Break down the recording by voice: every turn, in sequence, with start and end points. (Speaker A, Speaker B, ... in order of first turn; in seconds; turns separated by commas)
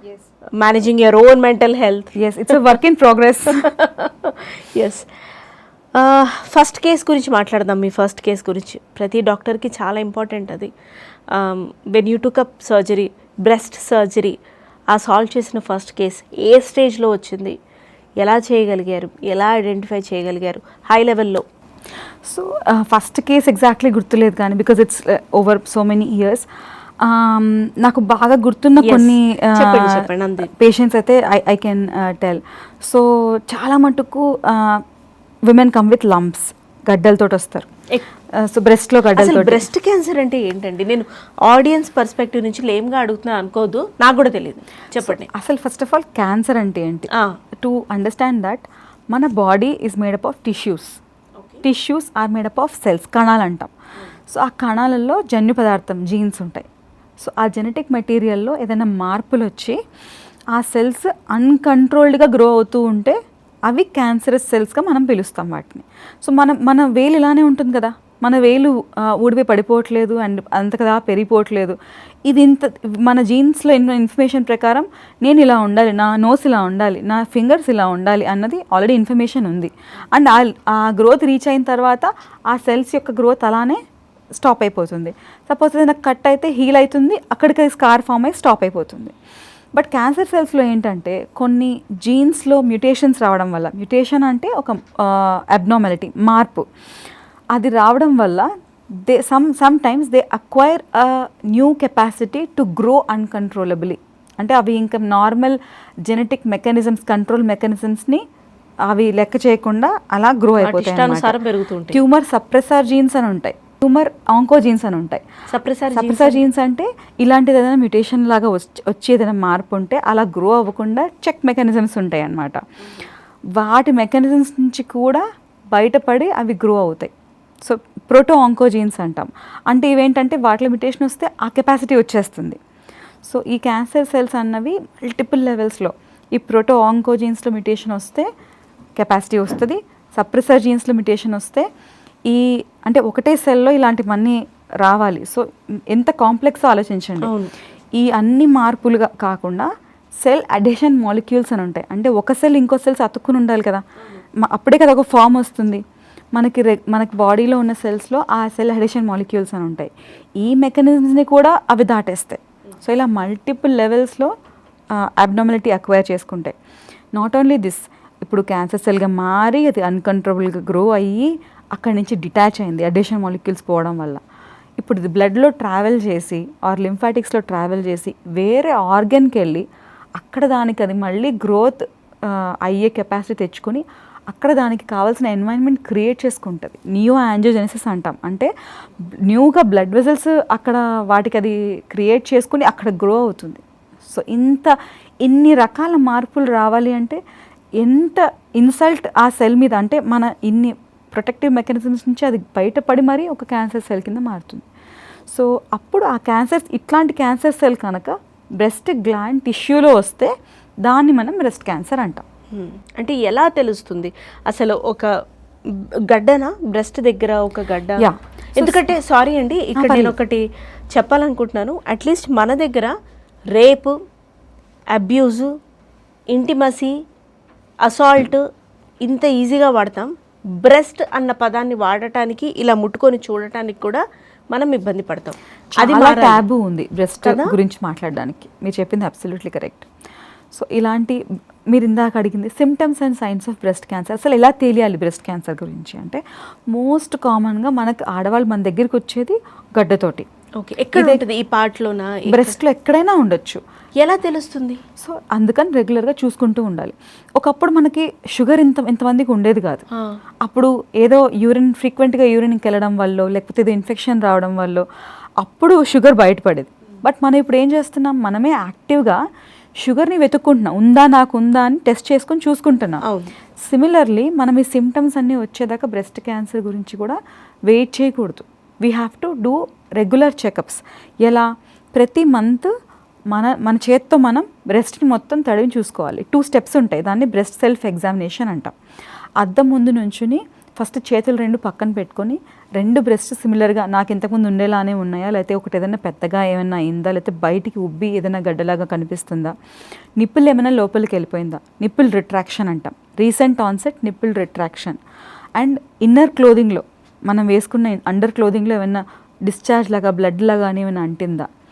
Speaker A: 0.6-2.6, Speaker B: 2.2-3.6, Speaker A: 3.5-5.1, Speaker A: 5.9-10.7, Speaker A: 11.3-14.3, Speaker A: 14.9-17.6, Speaker A: 18.2-21.4, Speaker B: 22.2-26.4, Speaker B: 27.0-34.8, Speaker A: 28.8-30.5, Speaker B: 35.5-37.7, Speaker B: 38.4-39.6, Speaker A: 39.1-45.3, Speaker B: 45.0-47.1, Speaker B: 47.6-51.0, Speaker B: 51.6-53.7, Speaker B: 54.3-56.7, Speaker B: 57.2-59.8, Speaker B: 60.5-63.2, Speaker B: 63.7-83.8, Speaker B: 84.4-89.1, Speaker B: 89.8-96.7, Speaker B: 97.5-108.2, Speaker B: 108.9-111.3, Speaker A: 110.6-112.0, Speaker B: 111.9-115.2, Speaker A: 115.5-116.4, Speaker B: 116.0-122.6, Speaker B: 123.5-127.1, Speaker B: 127.6-132.6, Speaker B: 133.2-138.3, Speaker B: 138.9-141.7, Speaker B: 142.3-147.3, Speaker A: 147.2-147.5, Speaker B: 147.9-149.7, Speaker B: 150.2-153.8, Speaker B: 154.4-155.8, Speaker B: 156.3-164.3, Speaker B: 164.9-166.5, Speaker B: 167.1-174.2, Speaker B: 174.8-188.5, Speaker B: 189.2-197.2, Speaker B: 197.8-204.6, Speaker B: 205.3-210.3, Speaker B: 210.8-212.2, Speaker A: 212.5-215.1, Speaker A: 215.7-220.4, Speaker B: 218.0-218.9, Speaker B: 219.8-220.2, Speaker A: 220.9-222.9, Speaker A: 223.5-223.9, Speaker A: 224.9-225.5, Speaker A: 226.3-226.9, Speaker A: 227.8-228.4, Speaker A: 229.0-230.1, Speaker A: 230.6-236.4, Speaker B: 235.8-239.9, Speaker A: 237.2-237.5, Speaker B: 240.5-241.2, Speaker B: 241.7-250.2, Speaker A: 250.6-252.5, Speaker B: 250.9-251.2, Speaker B: 252.3-253.6, Speaker A: 254.0-254.8, Speaker B: 255.0-259.8, Speaker B: 260.4-264.9, Speaker B: 265.4-269.2, Speaker B: 269.8-273.0, Speaker A: 273.0-273.3, Speaker B: 273.6-282.7, Speaker B: 283.3-288.7, Speaker B: 289.4-299.5, Speaker B: 300.2-305.0, Speaker B: 305.6-311.5